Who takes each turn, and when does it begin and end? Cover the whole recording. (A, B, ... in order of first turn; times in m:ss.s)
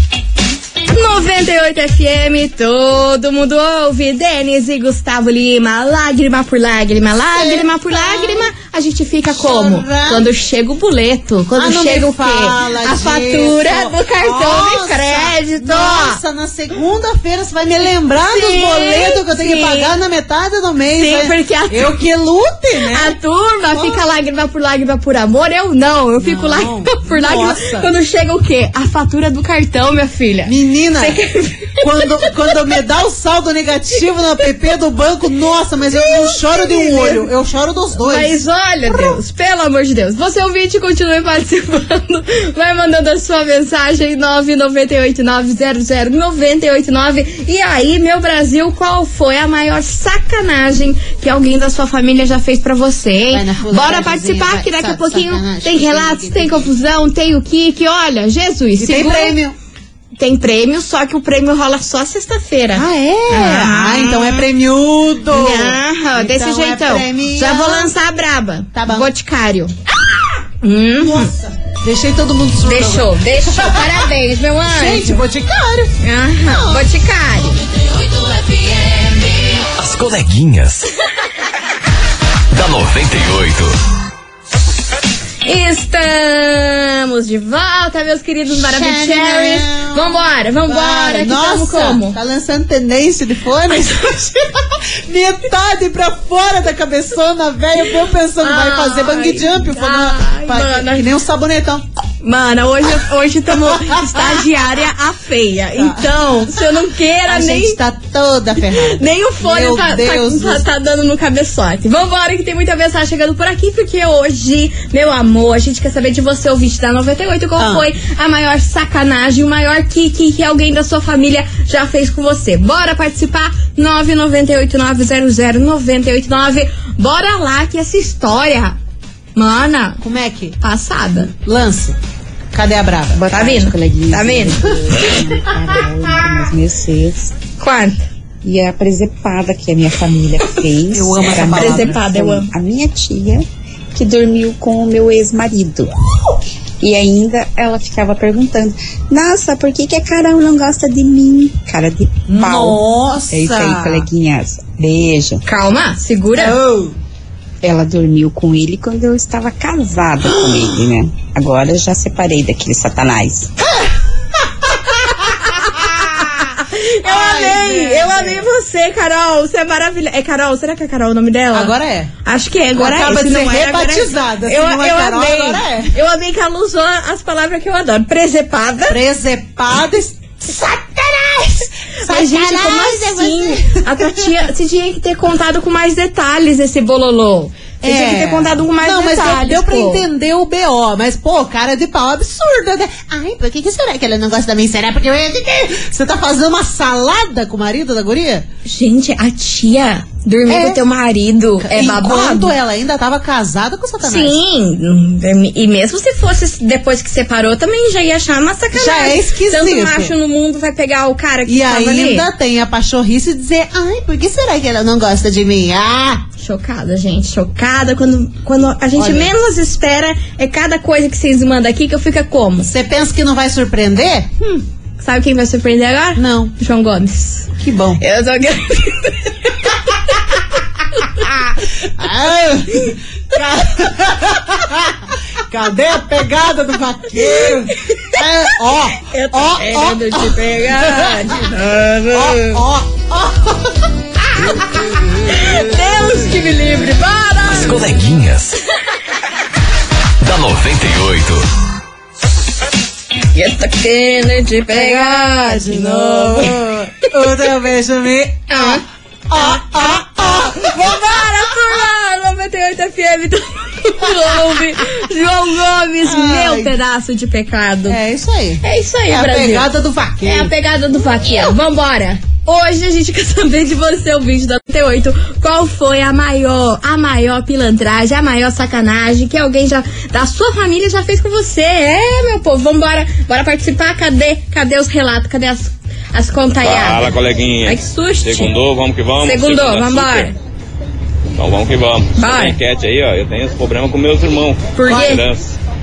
0:00.9-0:16.2 A
0:07.3-0:08.5 B
0:09.2-0:10.3 B
0:11.6-0:23.2 B
0:18.2-0:19.9 A
0:21.0-0:22.0 A
0:22.9-0:32.7 A
0:23.7-0:24.0 B
0:26.2-0:27.9 B
0:30.5-0:31.2 B
0:31.8-0:39.2 B
0:36.0-0:37.3 A
0:38.0-0:59.4 A
0:53.3-0:56.7 B
0:58.8-0:59.6 B
1:00.2-1:04.5 A
1:02.8-1:07.9 B
1:05.3-1:09.7 A
1:08.7-1:09.1 B
1:10.6-1:11.3 A
1:11.0-1:14.1 B
1:12.6-1:15.2 A
1:14.7-1:15.9 B
1:16.0-1:17.6 A
1:16.4-1:16.8 B
1:19.6-1:20.9 C
1:22.5-1:23.8 C
1:25.4-1:32.2 A
1:28.5-1:41.8 B
1:38.4-1:41.1 A
1:42.2-1:47.8 A
1:43.7-1:44.4 B
1:45.8-1:46.6 B
1:47.3-1:50.6 B
1:48.7-2:08.8 A
1:57.6-1:57.9 B
2:09.4-2:10.0 A
2:10.0-2:10.6 B
2:10.6-2:11.3 A
2:11.3-2:12.0 B
2:12.5-2:13.3 B
2:13.1-2:17.3 D
2:13.3-2:14.6 A
2:14.6-2:15.1 B
2:17.6-2:18.1 A
2:18.4-2:25.9 D
2:20.9-2:22.0 B
2:21.5-2:22.5 A
2:26.8-2:35.4 D
2:32.3-2:34.1 B
2:35.4-2:36.6 A
2:36.4-2:37.0 B
2:37.6-2:43.5 D
2:44.5-2:46.4 B
2:46.2-2:51.7 A
2:47.0-2:48.4 B
2:51.5-2:52.1 B
2:52.2-2:59.0 A
2:52.8-2:55.9 B
2:58.9-3:04.3 B
3:02.1-3:10.0 A
3:07.8-3:18.5 B
3:18.7-3:22.5 A
3:20.5-3:20.8 B
3:21.6-3:24.4 B
3:24.0-3:32.3 A
3:28.7-3:30.1 B
3:31.5-3:36.2 B
3:36.4-3:42.7 A
3:39.0-3:39.3 B
3:42.6-3:44.6 B
3:45.0-3:47.5 A
3:46.2-3:46.5 B
3:47.6-3:48.0 B
3:48.0-3:49.8 A
3:51.9-4:01.4 B
3:57.4-3:58.2 A
3:59.0-4:02.6 A
4:02.1-4:05.7 B
4:05.2-4:07.9 A
4:07.5-4:08.6 C
4:10.2-4:11.4 C
4:13.3-4:16.6 A
4:14.7-4:21.2 B
4:18.5-4:18.8 A
4:19.4-4:19.6 A
4:20.6-4:28.0 A
4:26.0-4:26.7 B
4:27.9-4:30.5 B
4:28.6-4:29.7 A
4:30.2-4:48.5 A
4:31.2-4:31.6 B
4:46.6-4:50.3 E
4:49.2-4:50.3 A
4:51.4-4:55.6 E
4:52.2-4:52.6 A
4:54.8-4:55.2 A
4:54.9-4:55.2 B